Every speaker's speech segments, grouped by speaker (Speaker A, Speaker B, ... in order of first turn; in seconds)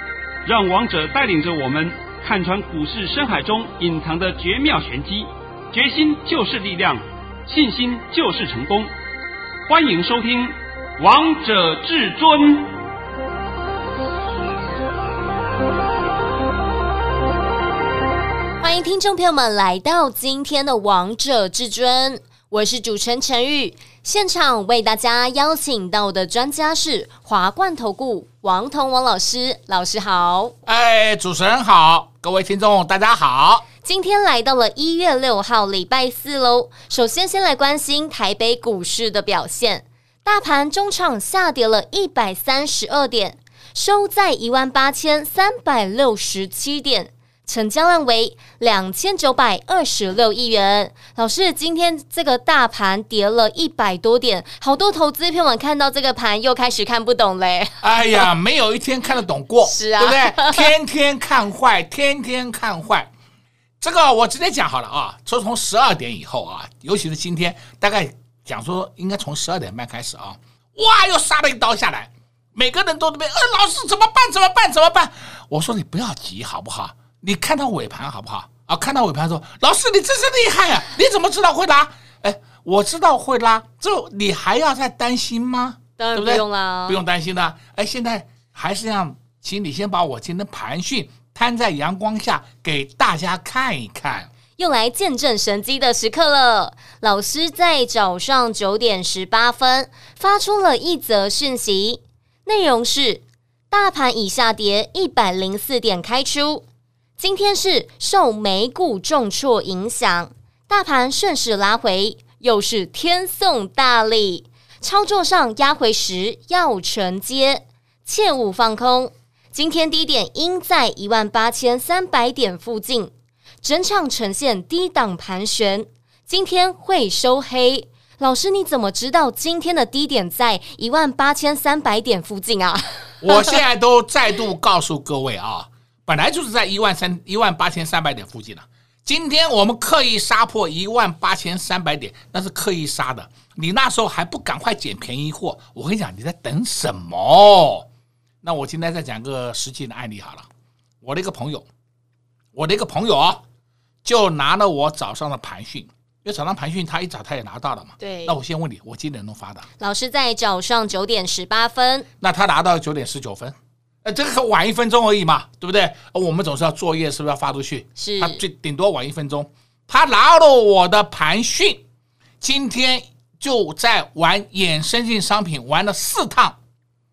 Speaker A: 0.4-8.9, 9.7-12.7
Speaker B: 18.6-30.5, 33.8-57.8, 59.6-60.7, 86.0-87.0, 94.6-106.6, 107.2-123.1, 123.6-133.5, 158.0-158.4, 159.8-162.1, 168.0-168.4
Speaker C: 30.6-33.6, 57.8-63.1, 63.8-94.3, 133.2-147.9, 148.4-150.5, 151.0-151.7, 152.5-153.4, 154.0-159.7, 162.2-171.8, 172.4-176.6